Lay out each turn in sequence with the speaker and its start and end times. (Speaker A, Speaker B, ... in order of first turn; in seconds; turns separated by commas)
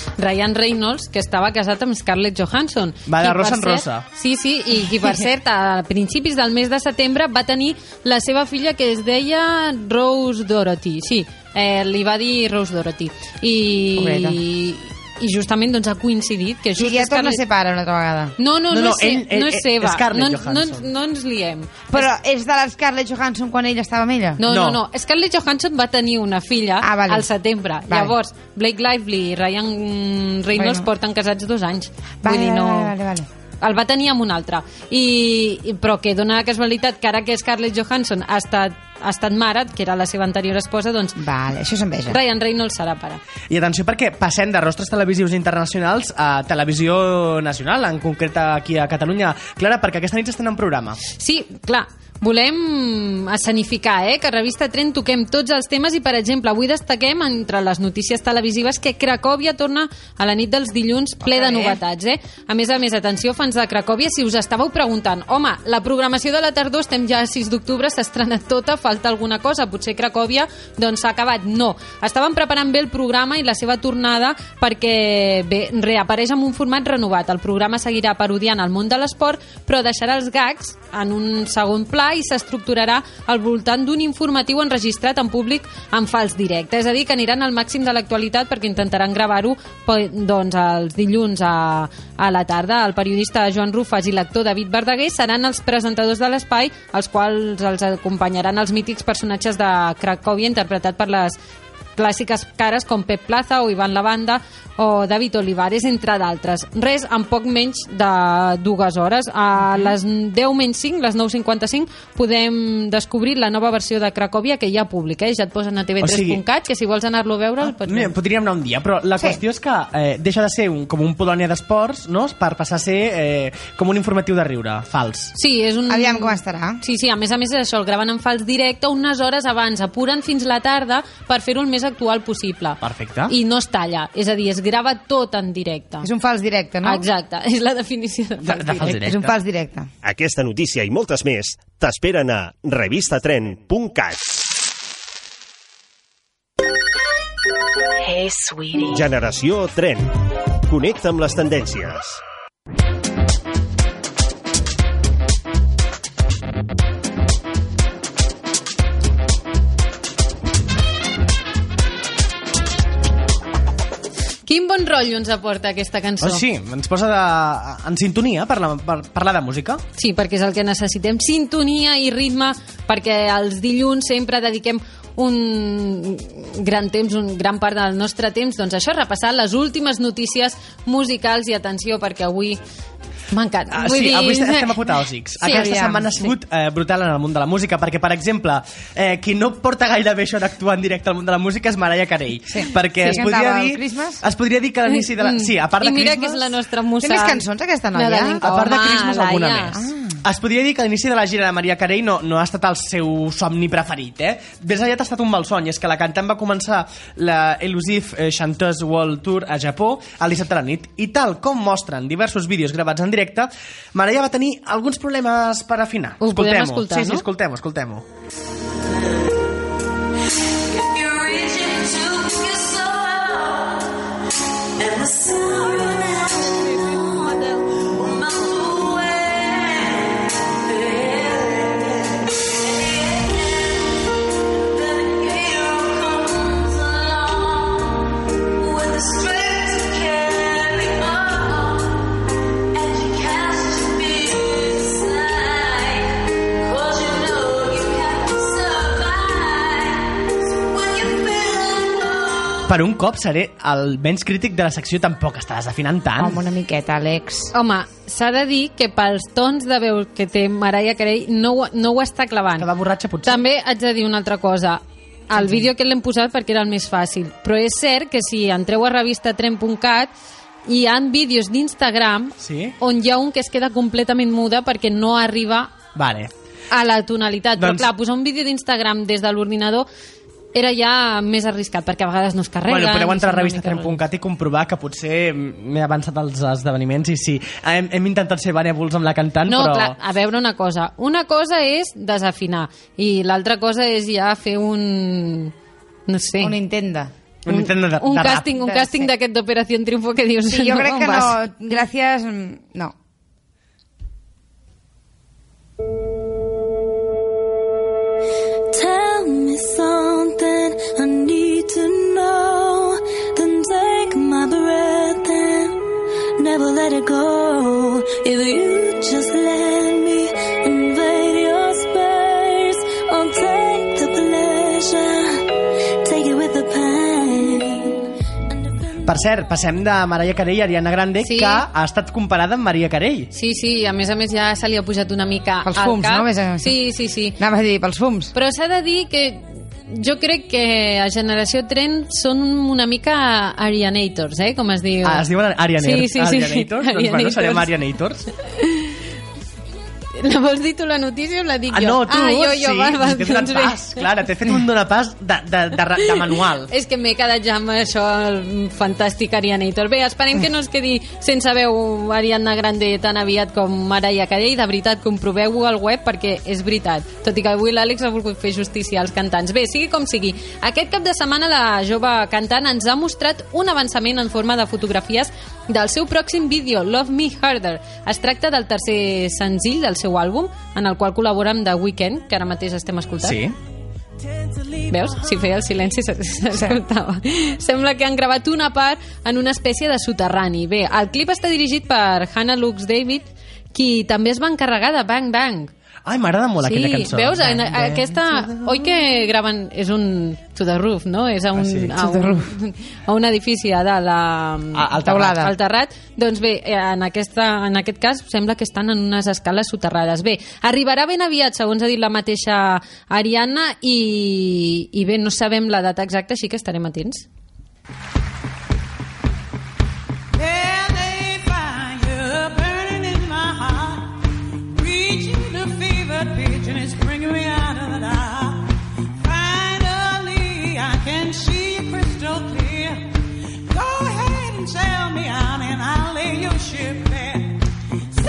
Speaker A: 0.2-17.4, Speaker B: 3.1-4.1, Speaker C: 14.0-14.4, Speaker C: 16.8-18.4, Speaker A: 18.4-22.1, Speaker B: 18.7-20.9, Speaker C: 21.9-24.4, Speaker A: 24.4-33.0, Speaker B: 24.5-24.8, Speaker C: 26.8-27.3, Speaker C: 27.9-28.1, Speaker C: 30.6-30.9, Speaker C: 32.2-33.3, Speaker A: 33.6-41.2, Speaker C: 41.2-42.2, Speaker A: 42.1-43.2, Speaker B: 43.5-51.0, Speaker A: 51.1-101.4, Speaker C: 61.2-61.8, Speaker A: 102.0-118.1, Speaker B: 116.0-116.4, Speaker B: 117.6-125.3, Speaker A: 125.3-136.1, Speaker C: 125.9-126.8, Speaker B: 132.8-133.4, Speaker C: 136.0-137.1, Speaker A: 136.8-139.1, Speaker B: 138.4-139.4, Speaker C: 138.9-139.9, Speaker D: 140.0-144.2, Speaker E: 148.0-148.9, Speaker D: 148.9-150.1, Speaker D: 150.7-152.2, Speaker A: 164.5-166.4, Speaker B: 166.2-169.8, Speaker A: 170.0-182.6, Speaker A: 183.3-184.7, Speaker B: 183.7-196.5, Speaker A: 185.4-186.3, Speaker C: 185.5-186.0, Speaker C: 192.5-194.2, Speaker A: 194.9-197.4, Speaker C: 197.0-198.4, Speaker A: 197.9-199.8, Speaker B: 198.4-218.1, Speaker C: 199.8-200.2, Speaker A: 216.2-217.3, Speaker E: 220.7-223.9, Speaker E: 224.8-234.1, Speaker E: 234.6-242.2, Speaker E: 242.7-252.7, Speaker B: 252.7-256.4, Speaker C: 256.2-257.5, Speaker A: 257.5-262.7, Speaker B: 262.6-263.4, Speaker A: 263.2-270.1, Speaker A: 270.7-275.7, Speaker B: 272.4-272.8, Speaker B: 275.9-276.3, Speaker A: 276.7-279.9, Speaker B: 277.6-277.9, Speaker A: 280.5-284.0, Speaker B: 282.7-290.0, Speaker A: 289.5-295.5, Speaker A: 296.1-296.6, Speaker C: 296.4-297.1, Speaker B: 297.4-298.5, Speaker A: 297.5-301.4, Speaker C: 298.5-299.1, Speaker C: 300.5-302.9, Speaker E: 308.7-315.8, Speaker E: 316.4-325.5, Speaker E: 326.0-329.2, Speaker B: 329.0-333.3, Speaker A: 331.2-331.7, Speaker A: 333.3-337.4, Speaker C: 335.6-336.8, Speaker C: 337.4-338.3, Speaker A: 338.3-345.3, Speaker B: 345.0-348.3, Speaker A: 345.8-347.7, Speaker A: 348.5-349.0, Speaker A: 350.2-354.0, Speaker B: 351.7-356.7, Speaker A: 356.7-383.4, Speaker B: 383.2-383.6, Speaker A: 384.9-395.7, Speaker B: 396.1-398.8, Speaker A: 396.6-417.3, Speaker B: 401.5-402.0, Speaker C: 402.0-402.5, Speaker B: 404.7-405.5, Speaker C: 405.1-405.5, Speaker F: 420.4-424.2, Speaker F: 424.8-433.1, Speaker F: 433.7-437.6